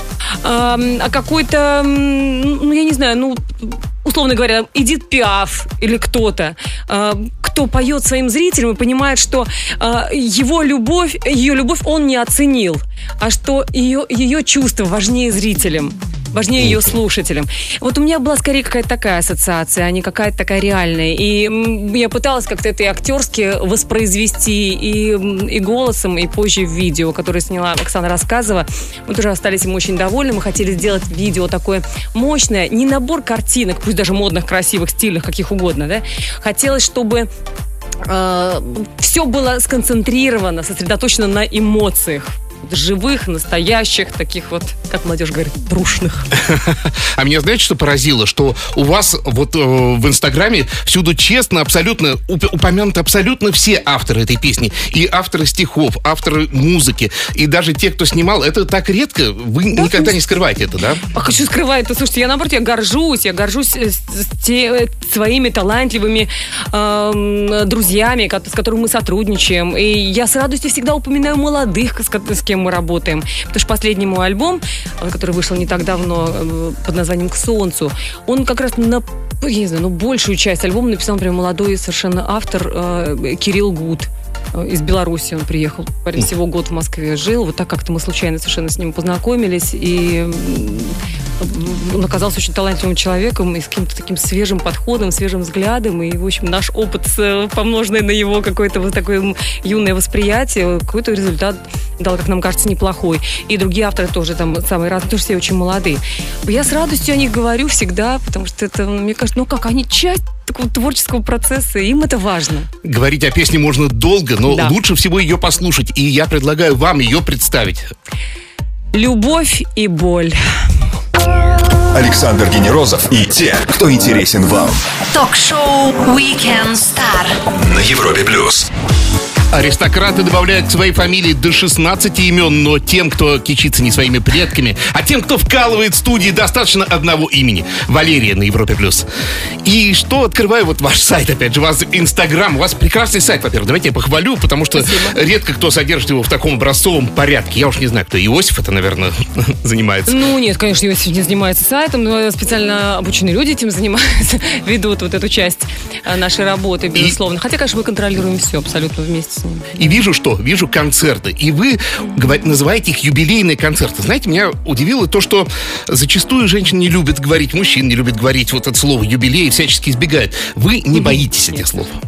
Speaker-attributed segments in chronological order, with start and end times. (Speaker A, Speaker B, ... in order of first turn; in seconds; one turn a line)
Speaker A: 0.4-37.3
Speaker A: 38.0-46.3
Speaker B: 46.4-61.0
Speaker A: 59.7-60.2
Speaker A: 61.1-112.7
Speaker B: 112.8-117.9
Speaker A: 114.5-114.7
Speaker A: 118.9-120.4
Speaker C: 121.9-124.8
Speaker D: 125.1-127.4
Speaker C: 127.5-128.7
Speaker B: 129.5-139.1
Speaker B: 139.6-150.2
Speaker A: 144.7-145.2
Speaker A: 150.1-160.0
Speaker B: 159.8-171.9
Speaker A: 170.9-171.6